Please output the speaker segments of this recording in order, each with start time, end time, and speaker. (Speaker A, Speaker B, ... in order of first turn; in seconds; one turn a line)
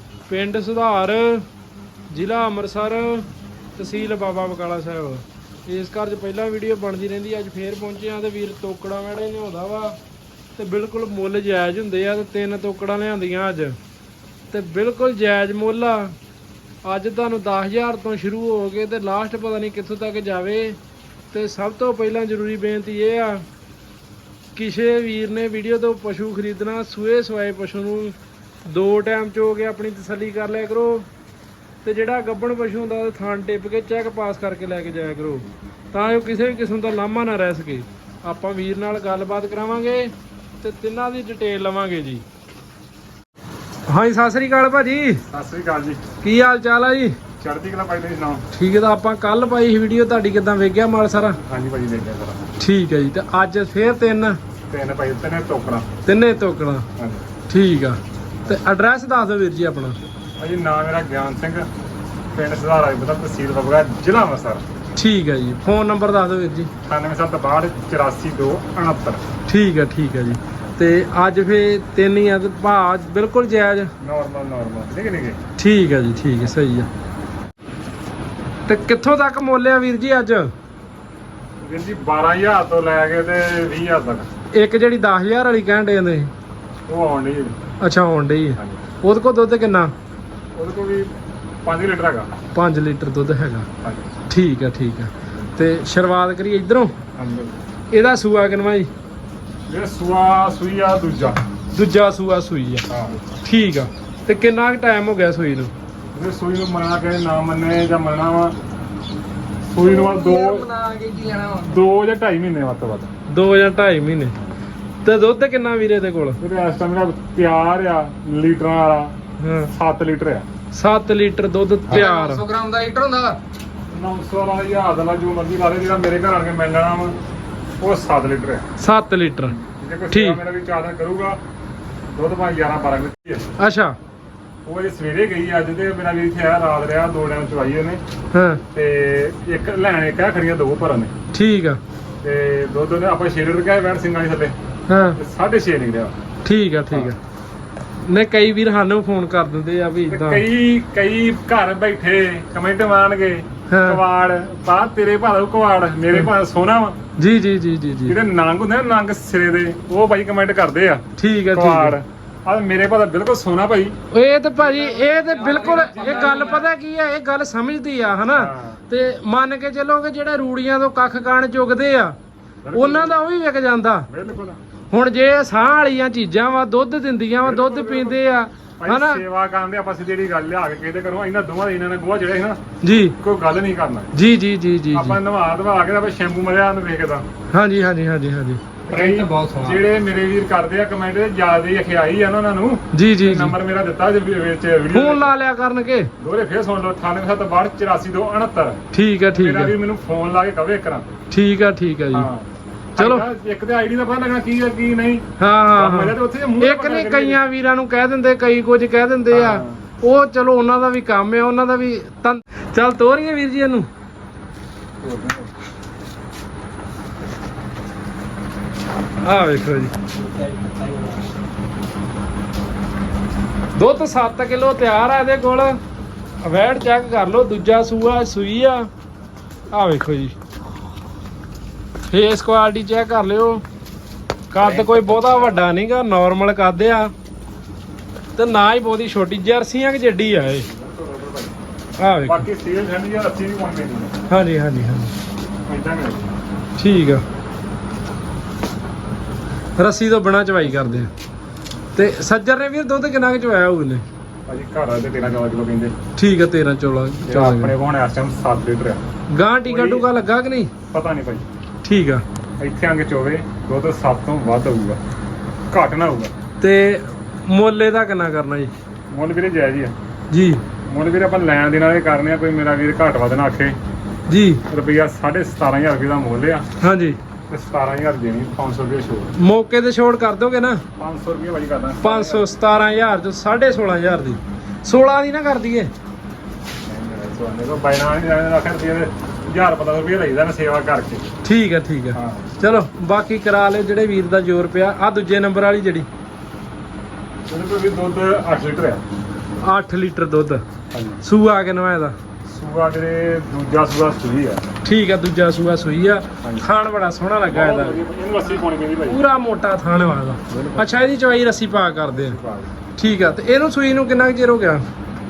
Speaker A: 0.3-1.4
Speaker A: 2.1-10.0
Speaker A: 10.6-13.8
Speaker A: 14.5-16.1
Speaker A: 16.8-20.8
Speaker A: 21.3-23.4
Speaker A: 24.5-28.1
Speaker A: 28.6-31.1
Speaker A: 31.8-42.2
Speaker A: 43.9-45.2
Speaker B: 45.3-46.1
Speaker A: 46.2-47.2
Speaker B: 47.4-48.4
Speaker A: 48.5-51.4
Speaker B: 51.4-52.5
Speaker A: 52.6-54.4
Speaker B: 54.7-55.9
Speaker A: 56.0-56.9
Speaker B: 57.0-57.2
Speaker A: 57.5-60.0
Speaker B: 60.4-61.7
Speaker B: 62.3-64.6
Speaker A: 64.9-66.7
Speaker B: 66.8-69.2
Speaker A: 69.5-73.9
Speaker B: 74.0-75.4
Speaker A: 75.6-76.9
Speaker A: 78.7-80.5
Speaker B: 81.6-84.3
Speaker A: 84.5-86.3
Speaker B: 86.9-87.5
Speaker A: 87.8-89.9
Speaker B: 88.6-88.8
Speaker B: 90.5-92.3
Speaker A: 92.5-93.7
Speaker B: 93.8-94.2
Speaker A: 94.3-96.9
Speaker B: 97.2-97.6
Speaker A: 97.9-98.9
Speaker B: 99.7-101.4
Speaker A: 101.7-102.9
Speaker B: 102.9-103.2
Speaker A: 103.4-105.7
Speaker B: 106.1-108.6
Speaker B: 109.7-110.7
Speaker C: 109.8-111.8
Speaker B: 111.6-113.1
Speaker A: 113.3-114.3
Speaker A: 115.0-116.4
Speaker B: 116.4-119.1
Speaker A: 119.4-119.7
Speaker B: 119.7-120.5
Speaker A: 120.7-122.5
Speaker C: 121.9-123.4
Speaker B: 123.9-127.2
Speaker B: 127.8-128.6
Speaker A: 128.8-129.6
Speaker B: 129.6-131.4
Speaker A: 130.1-130.4
Speaker B: 132.1-133.5
Speaker A: 133.6-133.9
Speaker B: 134.6-138.0
Speaker A: 138.3-138.6
Speaker B: 138.7-141.1
Speaker A: 141.3-141.8
Speaker B: 142.2-144.6
Speaker A: 144.9-145.2
Speaker B: 145.1-146.2
Speaker A: 146.4-147.2
Speaker A: 148.0-150.4
Speaker B: 150.1-157.0
Speaker A: 153.7-154.0
Speaker A: 157.2-158.2
Speaker B: 158.1-163.9
Speaker A: 161.2-162.0
Speaker A: 164.1-172.2
Speaker C: 164.7-166.7
Speaker B: 165.3-166.6
Speaker B: 168.3-168.8
Speaker B: 172.6-173.2
Speaker A: 172.7-174.1
Speaker B: 174.1-174.6
Speaker A: 174.9-179.2
Speaker B: 177.4-178.2
Speaker B: 178.8-184.1
Speaker A: 182.8-183.1
Speaker A: 184.1-185.2
Speaker B: 184.9-187.2
Speaker A: 187.5-188.6
Speaker B: 188.9-195.3
Speaker C: 188.9-189.8
Speaker A: 192.9-193.5
Speaker A: 194.9-196.1
Speaker B: 196.2-201.1
Speaker A: 198.9-199.7
Speaker A: 201.3-202.3
Speaker B: 202.1-207.4
Speaker A: 203.0-203.2
Speaker A: 205.4-213.9
Speaker B: 209.3-209.8
Speaker B: 215.0-215.5
Speaker A: 219.2-219.9
Speaker C: 220.1-221.3
Speaker A: 223.7-225.8
Speaker A: 226.4-228.9
Speaker A: 229.7-230.3
Speaker A: 232.1-233.6
Speaker A: 234.5-237.1
Speaker B: 234.6-235.7
Speaker A: 238.3-240.7
Speaker B: 240.6-241.5
Speaker A: 242.0-242.5
Speaker B: 242.2-244.1
Speaker A: 244.3-245.1
Speaker B: 245.7-246.3
Speaker A: 246.8-247.2
Speaker A: 249.8-251.1
Speaker A: 251.9-254.0
Speaker B: 254.5-255.9
Speaker A: 256.1-257.7
Speaker B: 257.3-259.0
Speaker A: 259.3-260.7
Speaker B: 259.6-260.1
Speaker B: 260.9-261.4
Speaker A: 261.8-262.2
Speaker B: 262.6-265.0
Speaker B: 265.7-266.3
Speaker A: 266.6-268.7
Speaker B: 269.1-269.9
Speaker A: 270.3-270.6
Speaker B: 270.9-273.8
Speaker A: 274.3-274.6
Speaker B: 274.7-276.7
Speaker A: 276.8-277.2
Speaker B: 277.5-279.3
Speaker A: 279.4-280.8
Speaker B: 281.0-282.6
Speaker A: 282.0-285.9
Speaker B: 286.8-291.3
Speaker A: 291.4-296.1
Speaker B: 292.1-292.5
Speaker B: 297.5-299.0
Speaker A: 299.6-300.6
Speaker B: 300.9-301.2
Speaker A: 301.2-302.1
Speaker B: 302.4-304.6
Speaker A: 304.8-308.0
Speaker B: 306.4-306.7
Speaker B: 307.5-309.2
Speaker A: 309.0-312.4
Speaker B: 310.5-310.9
Speaker B: 312.2-312.7
Speaker A: 312.9-314.8